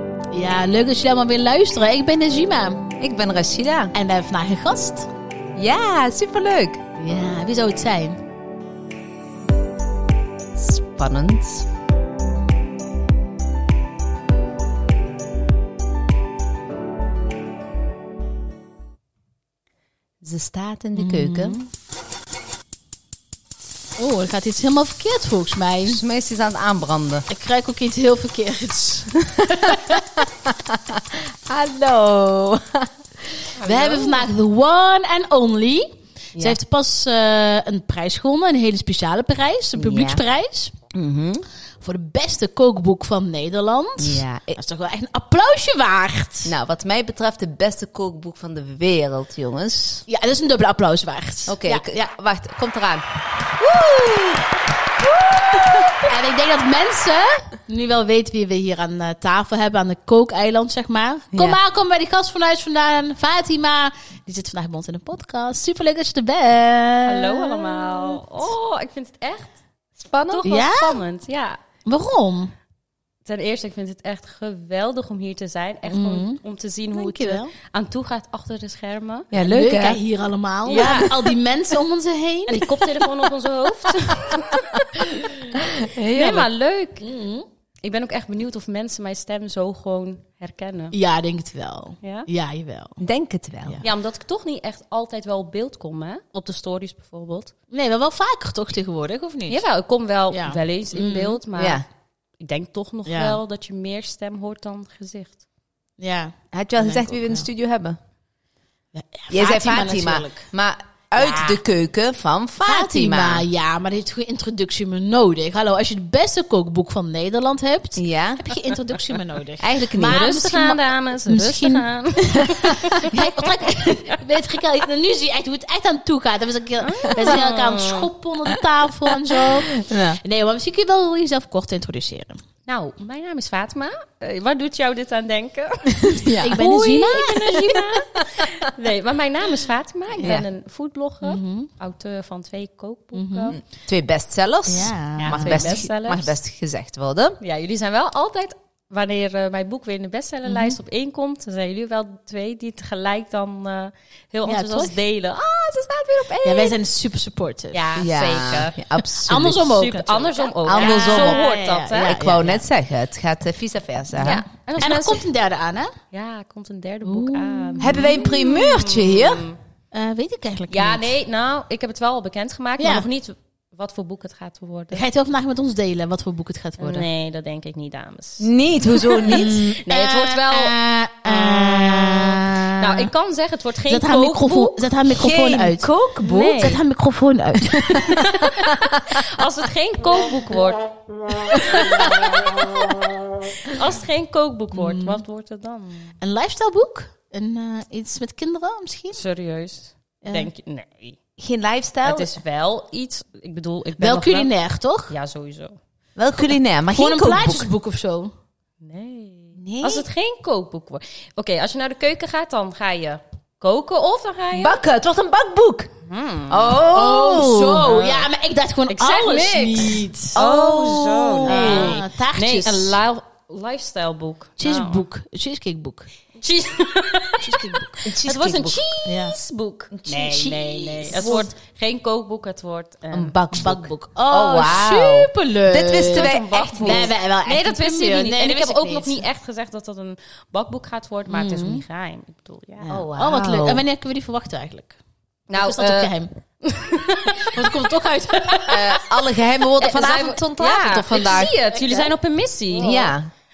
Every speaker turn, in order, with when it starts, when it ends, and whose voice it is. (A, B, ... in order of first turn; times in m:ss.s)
0:00.3-0:02.9 A
0:03.0-0:03.9 B
0:03.9-0:05.1 A
0:05.6-0:06.8 B
0:07.0-0:08.2 A
0:10.5-0:11.7 B
0:20.2-0:21.6 B
0:21.0-0:21.7 A
0:24.0-0:26.0 A
0:25.8-0:27.3 B
0:27.3-0:30.0 A
0:29.4-0:33.5 B
0:33.6-0:34.2 C
0:33.6-0:40.7 A
0:39.8-0:40.2 B
0:40.9-0:41.4 B
0:41.8-0:46.5 A
0:44.0-0:44.6 B
0:46.4-0:50.0 B
0:50.1-0:52.0 A
0:51.5-0:54.5 B
0:55.0-0:56.1 B
0:56.0-1:07.7 A
1:01.3-1:01.6 B
1:07.0-1:09.6 C
1:07.8-1:08.2 B
1:10.0-1:10.4 B
1:10.2-1:11.6 C
1:10.4-1:11.0 A
1:11.8-1:12.5 A
1:13.2-1:19.3 C
1:15.9-1:16.4 A
1:16.9-1:17.5 A
1:19.3-1:20.0 B
1:19.3-1:23.2 A
1:20.6-1:21.3 C
1:20.7-1:21.1 B
1:22.5-1:25.5 C
1:25.7-1:26.5 B
1:26.1-1:27.1 C
1:27.0-1:27.5 A
1:27.8-1:30.9 C
1:30.9-1:33.0 A
1:32.0-1:32.3 C
1:33.0-1:33.8 B
1:33.8-1:37.5 C
1:37.7-1:39.6 A
1:39.5-1:41.8 C
1:40.3-1:41.4 A
1:41.5-1:41.8 B
1:42.4-1:45.4 C
1:43.0-1:43.4 A
1:46.0-1:47.4 A
1:46.5-1:48.0 B
1:48.9-1:50.5 A
1:49.3-1:53.4 B
1:51.2-1:51.6 C
1:52.6-2:12.4 A
1:58.0-1:58.5 B
1:59.6-2:00.3 B
2:00.0-2:04.2 C
2:06.8-2:08.1 C
2:09.4-2:10.2 B
2:12.7-2:23.6 C
2:16.1-2:16.6 B
2:16.4-2:17.8 A
2:20.2-2:20.4 B
2:21.2-2:21.7 A
2:23.1-2:23.6 A
2:23.7-2:27.4 B
2:24.7-2:25.9 A
2:25.2-2:26.3 C
2:27.4-2:36.8 C
2:30.5-2:30.8 A
2:34.4-2:34.9 A
2:36.4-2:37.9 A
2:37.7-2:38.8 C
2:38.0-2:39.7 B
2:39.2-2:42.6 A
2:39.6-2:42.1 C
2:40.6-2:41.5 B
2:42.0-2:44.4 B
2:44.2-2:45.2 C
2:44.2-2:45.9 A
2:46.1-2:49.6 C
2:47.0-2:48.3 A
2:47.8-2:49.4 B
2:49.9-2:51.1 A
2:50.7-2:55.0 C
2:52.8-2:53.1 A
2:54.9-2:57.1 A
2:56.8-3:00.8 C
2:58.4-2:59.7 B
2:59.2-3:03.1 A
3:02.6-3:04.9 C
3:03.9-3:08.3 A
3:05.1-3:06.5 B
3:06.2-3:06.8 C
3:07.9-3:09.2 B
3:08.0-3:10.9 C
3:11.5-3:13.0 C
3:11.5-3:12.3 B
3:13.6-3:16.1 C
3:14.7-3:15.2 A
3:16.2-3:19.2 A
3:19.1-3:21.2 C
3:20.2-3:20.5 A
3:21.4-3:22.4 B
3:22.0-3:24.5 C
3:24.0-3:25.1 A
3:25.1-3:25.8 C
3:26.2-3:27.7 B
3:26.9-3:28.3 A
3:28.8-3:34.8 C
3:29.6-3:30.0 B
3:34.5-3:35.9 B
3:36.1-3:36.8 C
3:36.5-3:37.9 B
3:36.8-3:40.4 A
3:37.8-3:38.3 C
3:38.9-3:45.0 C
3:40.3-3:42.0 B
3:41.4-3:43.0 A
3:44.6-3:46.1 A
3:46.4-3:53.4 C
3:47.4-3:48.1 A
3:48.0-3:48.8 B
3:49.0-3:49.4 A
3:49.9-3:50.5 B
3:50.3-3:51.4 A
3:51.1-3:51.5 B
3:53.1-3:57.1 B
3:53.5-3:59.2 A
3:56.1-4:02.9 C
4:01.3-4:01.8 A
4:02.8-4:05.0 A
4:02.9-4:03.8 B
4:05.5-4:09.0 C
4:05.5-4:06.3 A
4:07.4-4:08.7 A
4:08.7-4:11.5 B
4:09.8-4:13.1 C
4:11.3-4:12.1 A
4:12.8-4:13.3 B